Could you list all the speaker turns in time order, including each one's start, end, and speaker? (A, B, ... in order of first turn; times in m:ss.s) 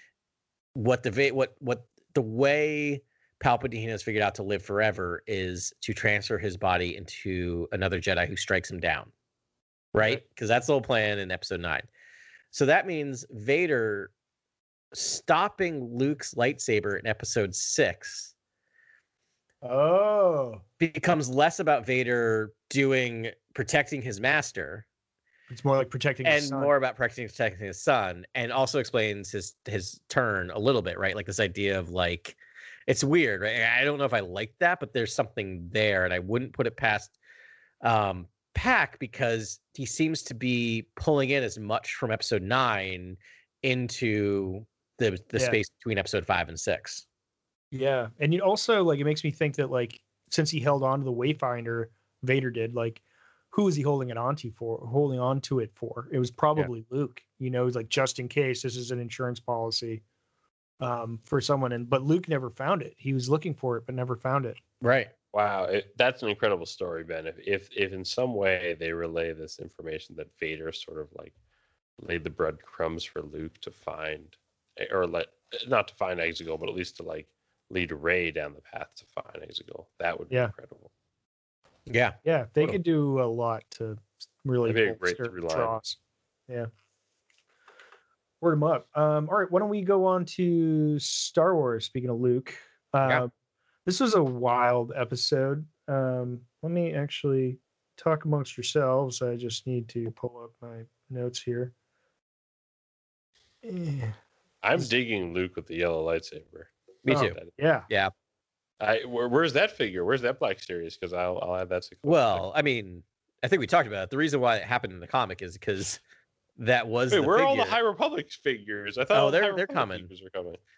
0:00.7-0:09.1 A
0:09.9-0:11.9 A
0:12.5-0:14.1 A
0:14.9-0:18.3 A
0:19.6-0:20.6 B
0:20.8-0:24.8 A
0:25.5-0:26.7 B
0:26.2-0:37.1 A
0:37.8-0:47.0 A
0:47.7-1:00.0 B
1:00.8-1:04.6 B
1:04.8-1:05.1 A
1:05.3-1:11.3 C
1:12.0-1:20.9 C
1:21.9-1:22.2 A
1:22.2-1:26.7 B
1:24.6-1:25.8 C
1:28.4-1:33.3 B
1:33.8-1:41.7 B
1:43.6-1:44.2 B
1:44.6-1:47.5 C
1:47.0-1:47.4 A
1:47.1-1:47.9 B
1:48.8-1:52.4 C
1:52.0-1:56.0 A
1:56.6-1:57.8 A
1:57.1-2:00.6 C
1:59.1-2:00.1 A